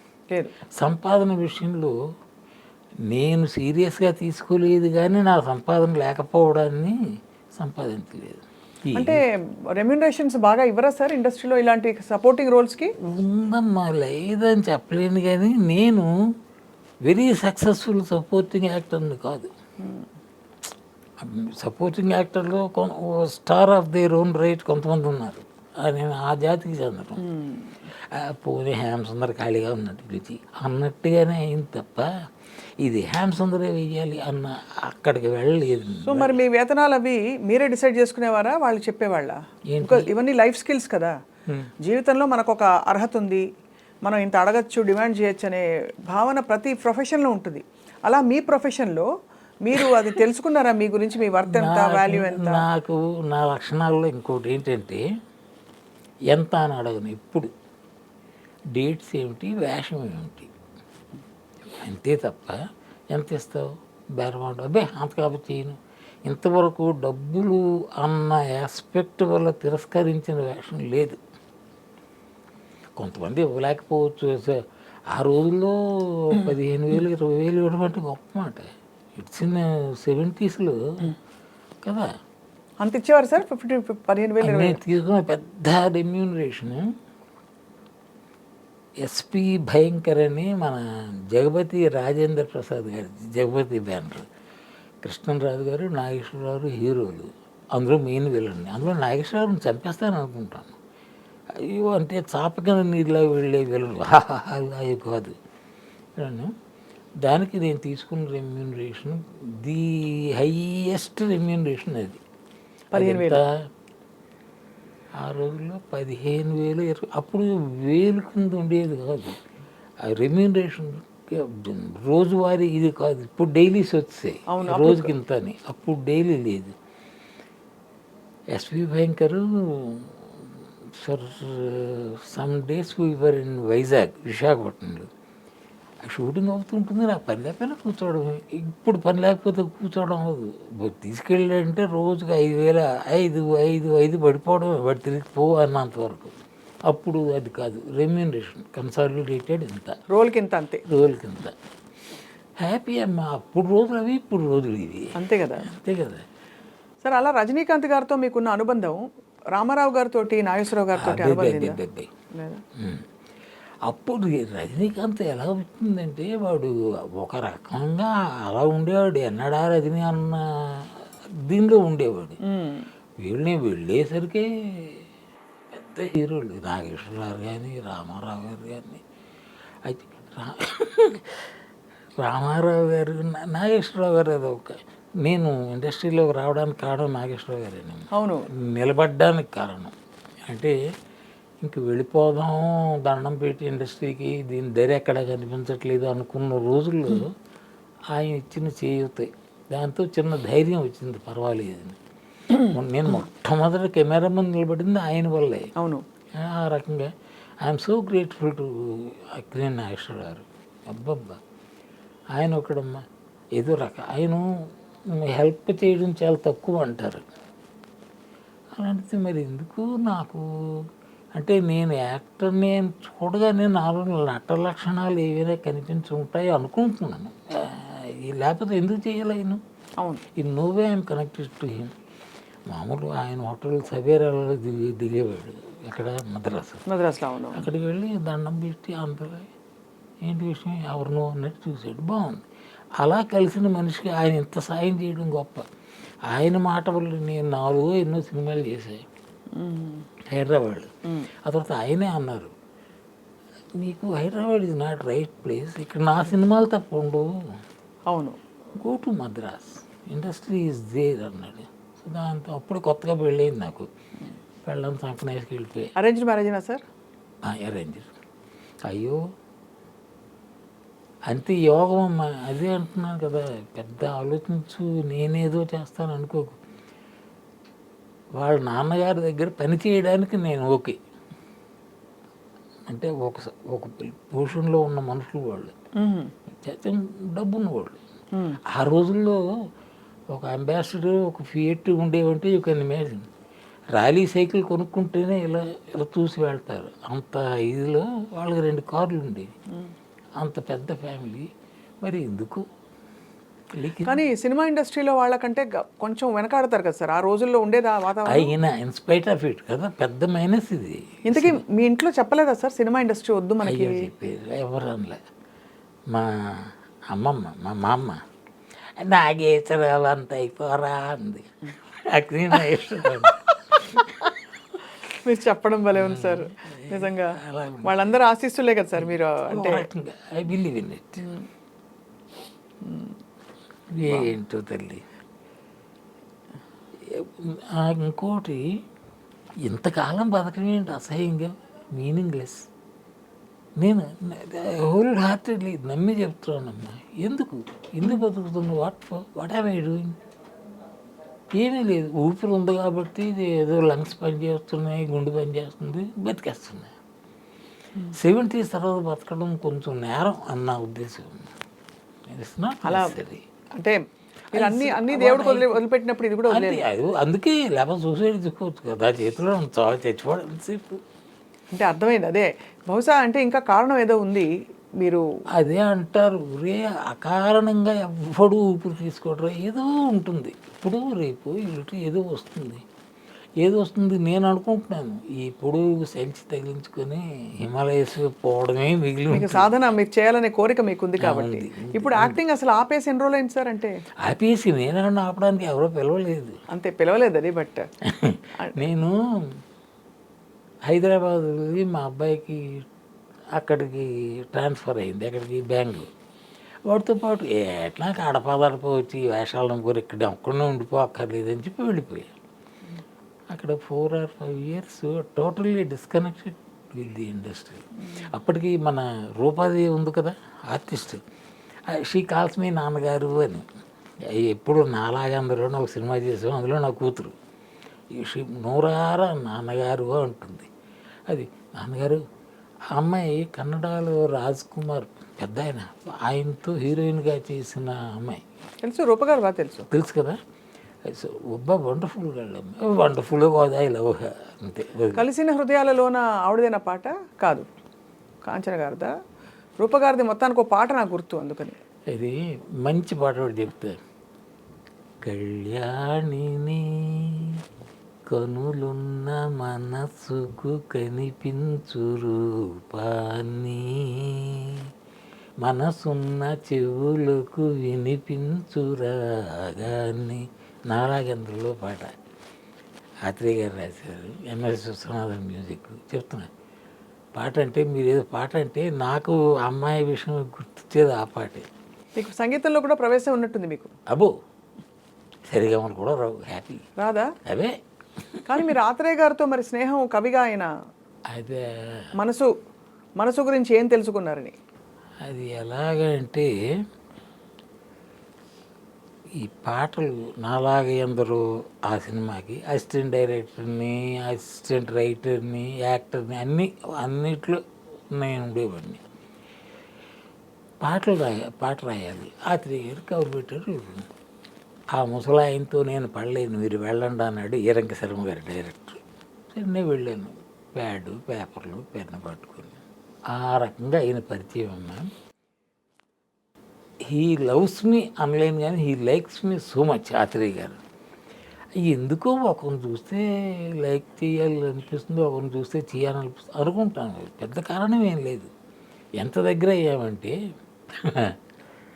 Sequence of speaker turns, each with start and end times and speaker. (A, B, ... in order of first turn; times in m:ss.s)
0:00.8-0:01.9 A
0:03.1-0:07.0 A
0:07.6-0:09.2 A
0:08.9-0:12.9 B
0:13.1-0:16.1 A
0:17.0-0:19.5 A
0:19.8-0:20.1 B
0:21.2-0:27.2 A
0:27.2-0:27.8 B
0:27.9-0:32.1 A
0:32.8-0:36.4 A
0:36.0-0:41.1 B
0:39.7-0:40.1 A
0:41.8-0:43.4 B
0:44.0-0:49.1 B
0:49.6-0:52.6 B
0:51.4-0:55.0 A
0:56.3-0:57.5 A
0:58.7-1:00.5 A
1:01.7-1:02.6 A
1:03.1-1:11.2 A
1:13.0-1:21.2 A
1:21.8-1:22.1 A
1:22.8-1:24.8 B
1:24.4-1:26.9 A
1:29.0-1:34.2 A
1:35.0-1:40.8 A
1:41.6-1:45.4 A
1:46.2-1:46.5 A
1:47.2-1:52.2 A
1:52.9-1:53.4 B
1:52.9-1:53.4 A
1:55.2-1:59.4 A
2:00.0-2:06.8 A
2:04.5-2:05.1 B
2:08.5-2:15.1 A
2:16.0-2:26.4 A
2:26.9-2:30.0 A
2:30.1-2:30.8 B
2:30.9-2:31.6 A
2:32.6-2:36.2 A
2:35.2-2:35.7 B
2:37.0-2:41.8 B
2:41.0-2:42.1 A
2:42.3-2:42.6 B
2:42.8-2:43.0 A
2:43.8-2:52.4 A
2:52.4-2:52.9 B
2:53.2-2:55.0 A
2:55.7-2:59.0 A
2:59.8-3:01.5 A
3:02.2-3:08.1 A
3:08.1-3:08.5 B
3:08.6-3:09.9 A
3:10.5-3:10.8 A
3:11.6-3:17.3 A
3:18.1-3:22.0 A
3:22.5-3:25.7 A
3:25.8-3:26.0 B
3:26.4-3:27.1 A
3:27.6-3:31.4 A
3:32.3-3:33.0 A
3:33.6-3:34.5 A
3:35.1-3:37.2 A
3:38.8-3:40.8 A
3:41.4-3:49.6 A
3:50.4-3:51.9 A
3:52.7-3:56.8 A
3:56.9-3:57.6 B
3:57.5-3:59.5 A
4:00.2-4:02.4 A
4:03.0-4:05.6 A
4:06.3-4:09.0 A
4:09.5-4:10.1 B
4:10.3-4:10.9 A
4:11.4-4:12.5 A
4:13.8-4:17.4 A
4:18.1-4:18.4 B
4:18.8-4:23.9 A
4:24.6-4:25.9 A
4:26.0-4:26.8 B
4:27.4-4:28.1 A
4:28.9-4:29.2 A
4:31.3-4:36.6 A
4:38.4-4:41.0 A
4:42.9-4:45.7 A
4:46.0-4:46.3 B
4:46.5-4:48.0 A
4:48.3-4:48.6 B
4:48.7-4:49.5 A
4:50.3-4:53.3 A
4:53.9-4:59.5 A
5:00.4-5:01.5 A
5:02.0-5:02.6 A
5:03.7-5:04.2 A
5:04.0-5:08.5 B
5:08.2-5:11.6 A
5:11.2-5:14.0 B
5:13.6-5:15.2 A
5:16.1-5:18.2 A
5:19.0-5:24.1 A
5:25.1-5:29.9 B
5:25.9-5:28.1 A
5:29.0-5:31.3 A
5:31.2-5:31.4 B
5:32.8-5:33.1 B
5:33.9-5:35.0 A
5:37.0-5:38.7 A
5:39.6-5:42.6 A
5:43.8-5:50.2 A
5:51.5-5:56.9 A
5:58.1-6:01.5 A
6:02.3-6:03.4 A
6:02.8-6:03.1 B
6:03.8-6:04.0 B
6:04.5-6:06.8 B
6:04.6-6:05.8 A
6:06.5-6:11.0 A
6:11.7-6:14.5 B
6:15.6-6:22.8 A
6:23.6-6:29.7 A
6:29.3-6:33.9 B
6:31.2-6:32.4 A
6:34.2-6:36.6 A
6:36.7-6:37.8 B
6:38.0-6:39.5 A
6:40.9-6:42.8 A
6:43.5-6:46.1 A
6:46.9-6:52.3 A
6:53.5-7:01.2 A
7:01.9-7:03.7 A
7:04.3-7:07.3 A
7:08.1-7:10.7 A
7:11.3-7:12.2 A
7:12.9-7:18.4 A
7:18.8-7:19.9 B
7:19.9-7:20.4 A
7:21.0-7:25.2 A
7:25.1-7:27.7 B
7:28.4-7:29.1 B
7:29.8-7:31.8 B
7:32.1-7:34.0 A
7:35.2-7:37.6 A
7:38.3-7:44.9 A
7:45.6-7:52.1 A
7:53.2-7:56.5 A
7:57.4-8:01.7 A
8:02.2-8:03.9 B
8:05.5-8:06.8 A
8:07.0-8:07.3 B
8:07.4-8:07.8 A
8:08.3-8:08.7 A
8:08.5-8:10.7 B
8:11.3-8:12.1 A
8:12.2-8:12.5 B
8:13.2-8:14.6 B
8:15.2-8:16.5 A
8:19.4-8:27.6 A
8:28.1-8:29.0 A
8:30.8-8:34.1 A
8:35.0-8:45.1 A
8:47.1-8:50.8 A
8:51.8-8:58.5 A
8:59.2-9:00.4 A
9:00.9-9:01.4 A